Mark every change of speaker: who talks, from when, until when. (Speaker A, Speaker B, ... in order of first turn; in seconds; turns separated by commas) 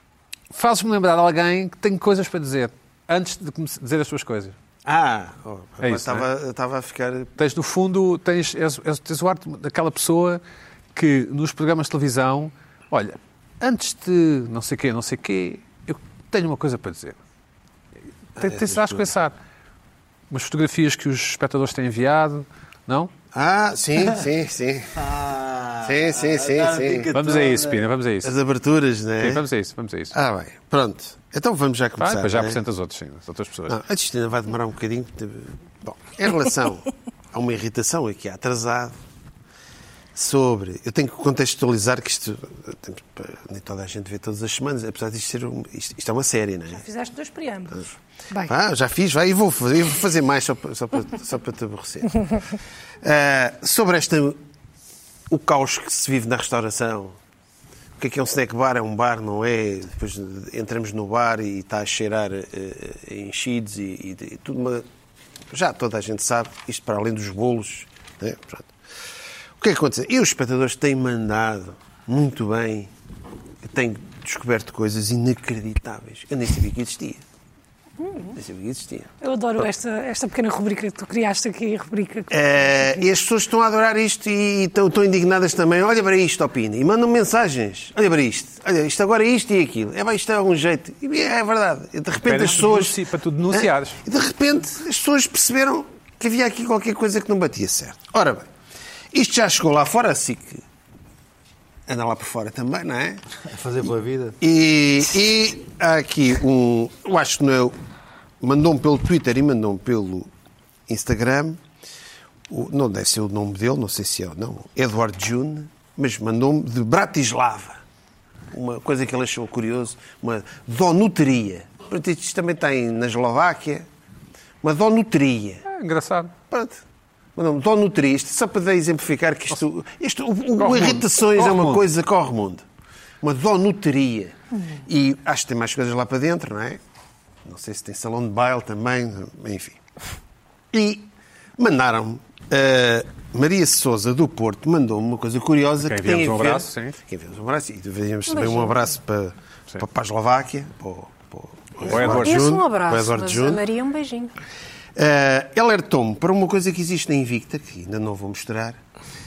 Speaker A: 0.5-4.5, Speaker B: 4.8-7.3, Speaker A: 5.8-6.3, Speaker A: 7.4-10.4, Speaker A: 10.9-17.2, Speaker A: 18.4-19.4, Speaker B: 18.4-18.9, Speaker A: 20.3-23.1, Speaker B: 23.3-25.0, Speaker C: 24.9-27.9, Speaker B: 25.8-27.1, Speaker A: 27.1-28.3, Speaker B: 28.2-29.4, Speaker A: 29.2-30.1, Speaker B: 30.1-32.6, Speaker A: 32.0-33.8, Speaker B: 33.7-38.9, Speaker B: 40.1-46.8, Speaker D: 46.7-48.5, Speaker B: 48.5-52.3, Speaker B: 53.0-54.4, Speaker B: 55.3-57.2, Speaker B: 58.0-64.8, Speaker B: 65.5-68.7, Speaker B: 69.6-72.9, Speaker B: 73.6-77.2, Speaker B: 78.3-79.1, Speaker D: 79.2-82.4, Speaker B: 82.3-93.0, Speaker A: 92.2-94.0, Speaker B: 93.5-98.5, Speaker B: 99.1-100.6, Speaker B: 101.9-103.2, Speaker C: 103.5-104.4, Speaker B: 104.4-107.7, Speaker B: 108.4-110.3, Speaker B: 110.9-111.6, Speaker B: 112.5-117.8, Speaker B: 118.5-123.9, Speaker B: 124.6-125.6, Speaker A: 125.6-126.3, Speaker B: 126.5-126.8, Speaker B: 127.3-132.6, Speaker A: 130.6-131.8, Speaker B: 133.2-136.8, Speaker B: 137.4-139.8, Speaker B: 140.7-153.6, Speaker A: 145.8-147.0, Speaker E: 148.3-148.7, Speaker A: 151.8-152.4, Speaker E: 151.8-154.3, Speaker B: 154.9-158.8